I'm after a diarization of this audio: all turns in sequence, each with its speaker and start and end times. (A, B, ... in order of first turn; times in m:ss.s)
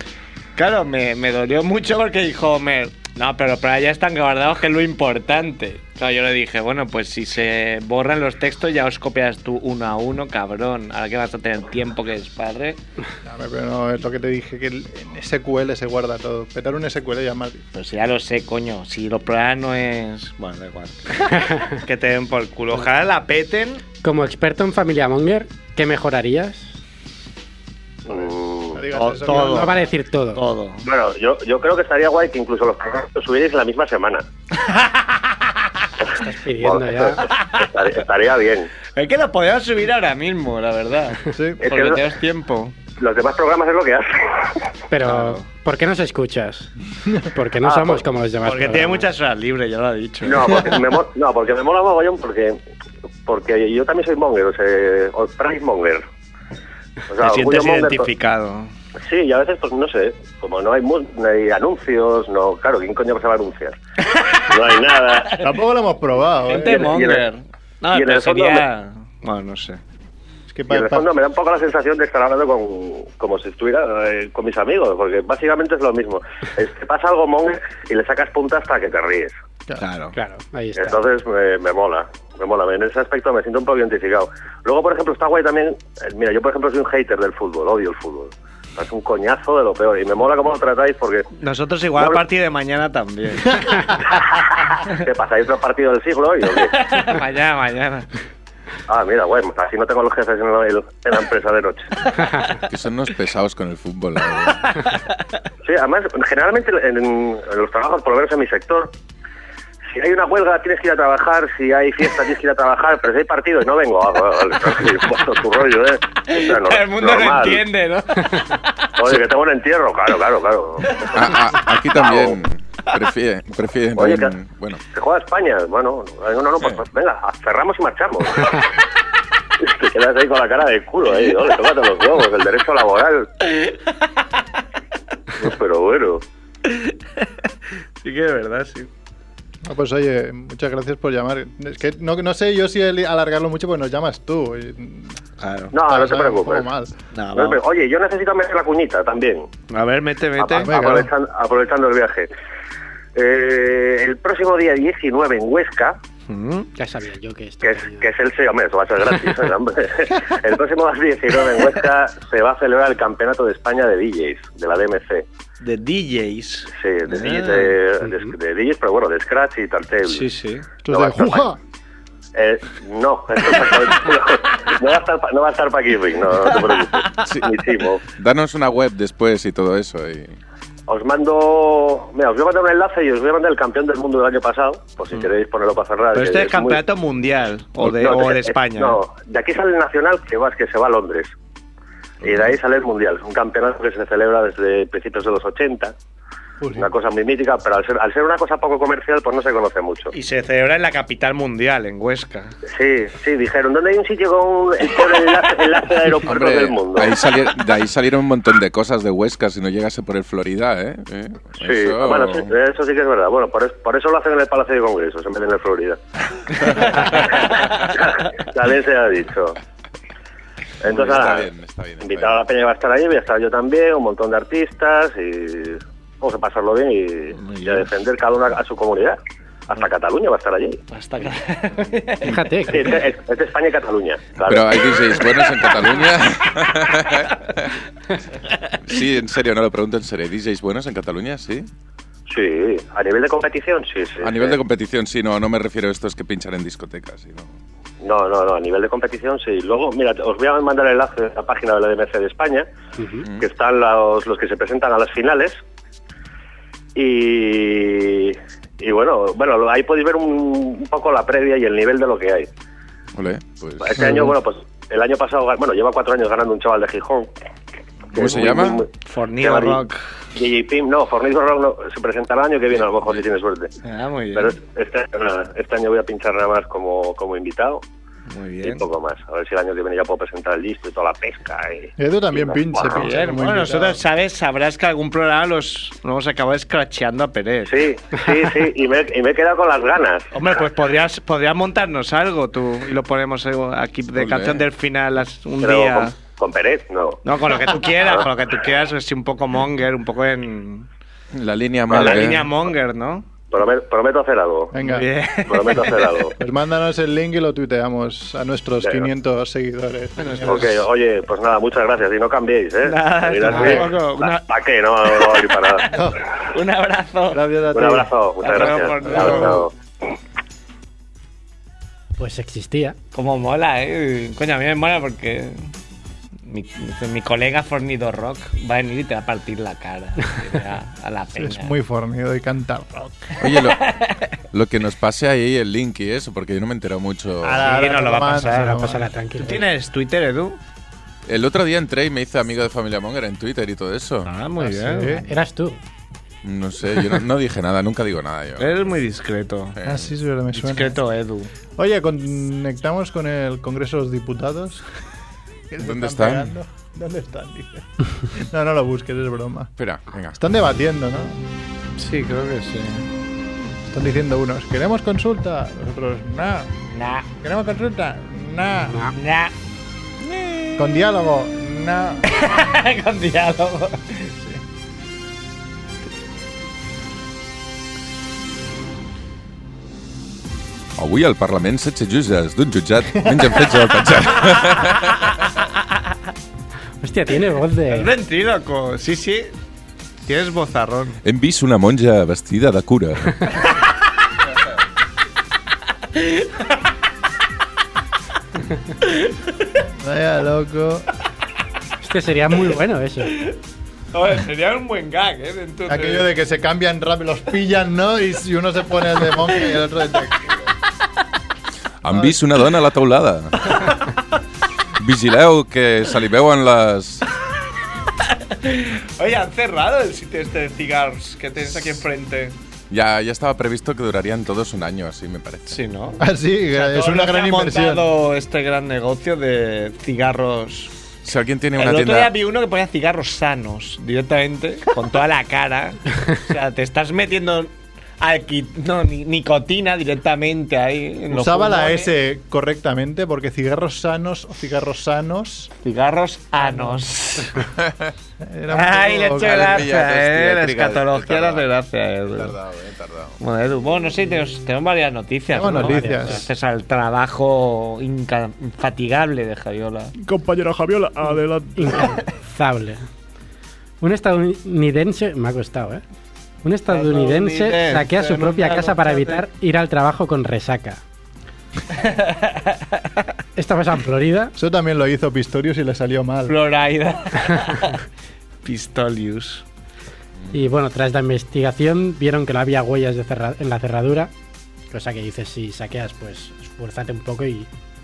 0:00.6-0:12.8 A
0:13.2-0:17.6 B
0:17.7-0:23.8 A
0:24.0-0:26.8 C
0:28.1-0:28.8 D
0:28.1-0:29.9 B
0:28.9-0:29.8 A
0:29.3-0:30.4 C
0:30.3-0:30.8 A
0:30.8-0:34.2 D
0:34.6-0:35.5 A
0:36.2-0:37.2 C
0:36.6-0:38.7 D
0:37.2-0:37.7 A
0:39.0-0:42.8 A
0:41.3-0:41.6 B
0:41.6-0:42.0 D
0:43.0-0:44.7 D
0:44.9-0:49.0 C
0:45.0-0:45.5 A
0:47.6-0:48.0 D
0:48.4-0:50.7 A
0:50.2-0:52.6 D
0:53.3-0:56.0 D
0:57.1-0:58.1 D
0:57.2-0:58.7 A
0:59.1-1:03.8 D
1:04.1-1:04.5 A
1:04.4-1:05.4 D
1:05.4-1:07.0 B
1:06.5-1:09.8 A
1:06.7-1:07.2 D
1:07.9-1:08.7 D
1:10.5-1:11.1 B
1:10.7-1:19.4 D
1:19.8-1:20.2 A
1:20.2-1:21.0 C
1:20.8-1:31.3 D
1:31.4-1:33.8 A
1:34.3-1:36.8 D
1:36.7-1:38.1 A
1:38.9-1:42.0 D
1:42.7-1:44.8 E
1:44.7-1:45.0 A
1:45.6-1:48.9 D
1:49.9-1:57.6 D
1:56.2-1:58.9 A
1:59.0-2:01.3 D
2:01.1-2:04.8 E
2:02.0-2:02.4 D
2:04.0-2:04.3 D
2:04.9-2:08.7 D
2:09.6-2:13.3 D
2:13.5-2:13.8 A
2:15.4-2:16.2 D
2:16.7-2:17.3 A
2:18.0-2:18.9 A
2:19.6-2:25.2 B
2:25.4-2:25.7 A
2:25.7-2:26.7 D
2:25.8-2:27.0 B
2:27.1-2:27.6 A
2:27.4-2:29.5 D
2:29.7-2:30.7 A
2:30.4-2:32.3 D
2:30.6-2:31.1 B
2:33.2-2:36.0 D
2:36.3-2:36.7 A
2:36.8-2:38.1 C
2:37.6-2:45.2 D
2:45.6-2:47.8 A
2:46.8-2:50.3 D
2:48.0-2:48.3 C
2:50.1-2:50.7 A
2:50.8-2:51.6 B
2:50.9-2:51.5 D
2:52.4-2:58.0 D
2:56.6-2:57.2 A
2:57.2-2:57.6 E
2:58.2-3:00.4 E
3:00.9-3:06.8 D
3:06.1-3:09.0 A
3:07.8-3:11.3 D
3:12.2-3:15.9 D
3:16.6-3:16.9 B
3:16.8-3:20.1 D
3:20.1-3:22.6 A
3:22.7-3:27.2 D
3:26.3-3:32.5 E
3:31.6-3:36.0 D
3:36.6-3:39.6 D
3:36.7-3:37.5 E
3:40.8-3:41.5 D
3:40.8-3:42.4 E
3:42.0-3:49.2 D
3:47.3-3:47.9 A
3:49.7-3:50.8 D
3:50.9-3:52.5 A
3:52.3-3:53.0 C
3:52.7-3:55.1 D
3:54.5-3:57.7 E
3:58.8-4:01.7 E
4:02.3-4:04.6 D
4:04.2-4:07.5 E
4:08.0-4:12.7 D
4:13.0-4:13.2 C
4:13.4-4:15.6 D
4:17.0-4:22.5 D
4:23.2-4:24.1 E
4:23.8-4:27.3 D
4:24.0-4:24.2 B
4:28.1-4:29.8 D
4:28.2-4:28.8 E
4:29.0-4:30.0 A
4:30.4-4:33.7 D
4:32.8-4:33.2 E
4:33.8-4:34.6 A
4:34.4-4:37.8 D
4:38.3-4:38.9 A
4:38.6-4:43.0 D
4:42.0-4:44.0 B
4:42.9-4:47.8 A
4:47.7-4:50.3 D
4:50.3-4:56.1 A
4:54.2-4:54.6 E
4:55.6-4:58.2 D
4:57.2-5:00.9 A
5:01.3-5:02.5 E
5:01.9-5:03.3 A
5:01.9-5:02.2 D
5:03.5-5:04.7 D
5:04.7-5:05.1 B
5:04.8-5:06.0 A
5:05.5-5:06.4 D
5:06.4-5:10.9 B
5:10.2-5:10.7 A
5:10.4-5:16.0 D
5:12.8-5:14.5 A
5:13.5-5:13.9 B
5:13.5-5:13.8 C
5:15.9-5:17.4 A
5:15.9-5:16.2 B
5:17.3-5:18.1 B
5:17.7-5:19.7 D
5:18.4-5:19.7 A
5:19.0-5:19.6 B
5:22.2-5:23.0 C
5:23.1-5:25.7 A
5:26.5-5:31.8 A
5:31.3-5:33.3 B
5:33.4-5:37.7 E
5:33.5-5:34.3 A
5:37.4-5:39.1 B
5:37.6-5:40.6 A
5:38.7-5:39.6 C
5:41.3-5:44.3 E
5:44.2-5:45.4 A
5:44.6-5:45.3 B
5:45.3-5:45.8 C
5:46.4-5:48.9 E
5:48.6-5:49.8 A
5:49.8-5:50.1 E
5:49.8-5:51.0 B
5:50.5-5:51.5 A
5:51.8-5:54.9 B
5:55.7-5:59.7 B
5:55.8-5:56.5 E
5:59.8-6:00.4 E
6:00.4-6:01.4 B
6:02.0-6:03.1 A
6:03.9-6:06.7 B
6:06.9-6:07.3 A
6:07.4-6:09.0 B
6:09.1-6:09.5 A
6:10.8-6:12.2 B
6:12.3-6:14.3 A
6:21.0-6:25.3 E
6:23.1-6:24.0 B
6:25.2-6:25.7 A
6:27.0-6:28.1 C
6:27.9-6:29.5 A
6:30.3-6:31.2 A
6:31.2-6:33.6 E
6:36.1-6:36.7 A
6:39.0-6:39.5 A
6:40.0-6:41.1 B
6:42.0-6:43.4 C
6:43.3-6:43.6 A
6:44.1-6:46.3 A
6:45.9-6:50.6 B
6:52.0-6:54.0 E
6:52.1-6:52.4 B
6:55.0-6:57.2 E
6:58.2-7:02.6 A
7:02.9-7:05.8 E
7:05.7-7:06.2 A
7:06.2-7:08.1 B
7:06.7-7:10.9 A
7:11.2-7:12.4 E
7:11.8-7:22.1 A
7:21.3-7:25.7 B
7:25.8-7:27.7 A
7:26.6-7:27.0 B
7:27.8-7:28.1 E
7:28.4-7:29.9 B
7:28.7-7:32.6 A
7:29.3-7:31.7 E
7:32.3-7:33.4 E
7:33.4-7:40.1 A
7:35.5-7:36.4 B
7:35.8-7:36.4 C
7:40.2-7:42.2 B
7:41.8-7:43.0 C
7:44.0-7:46.0 C
7:46.6-7:51.0 C
7:46.9-7:49.4 A
7:51.9-7:53.0 A
7:53.6-7:54.5 C
7:54.6-7:56.6 B
7:56.5-7:58.0 A
7:58.6-7:59.6 A
8:00.5-8:04.3 C
8:04.9-8:07.7 C